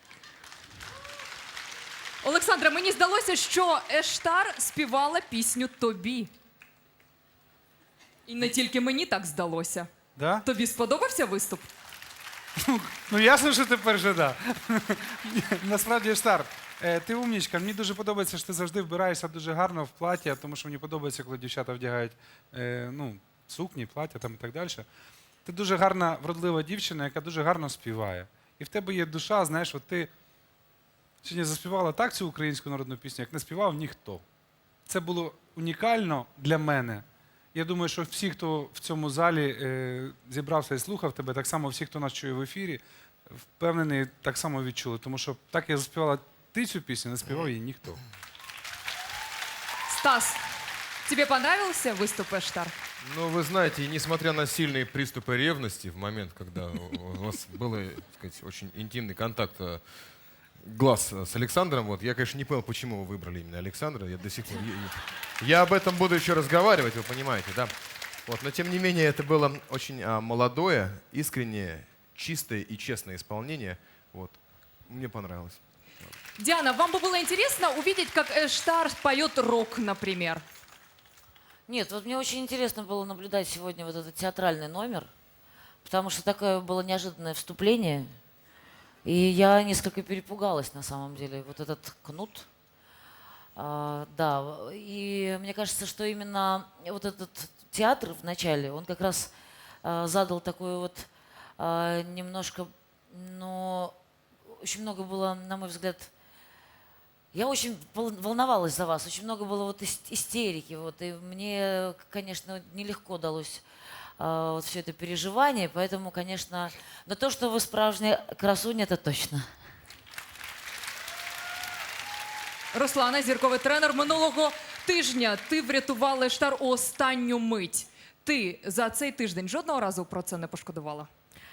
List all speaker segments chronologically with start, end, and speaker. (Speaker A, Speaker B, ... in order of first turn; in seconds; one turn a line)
Speaker A: 2.2-6.3
Speaker A: 8.3-9.9
Speaker B: 10.2-10.4
Speaker A: 10.4-11.7
Speaker B: 12.7-24.9
Speaker B: 25.4-30.1
Speaker B: 31.2-34.2
Speaker B: 34.9-42.8
Speaker B: 43.4-48.0
Speaker A: 49.9-50.4
Speaker A: 51.1-52.7
Speaker C: 53.0-59.8
Speaker C: 60.6-67.7
Speaker C: 68.3-76.1
Speaker A: 76.4-80.4
Speaker D: 81.7-85.1
Speaker D: 85.8-88.1
Speaker D: 89.0-92.5
Speaker D: 93.5-99.3
Speaker D: 99.8-103.9
Speaker D: 104.6-106.1
Speaker D: 107.3-113.7
Speaker D: 114.2-119.4
Speaker A: 122.7-131.1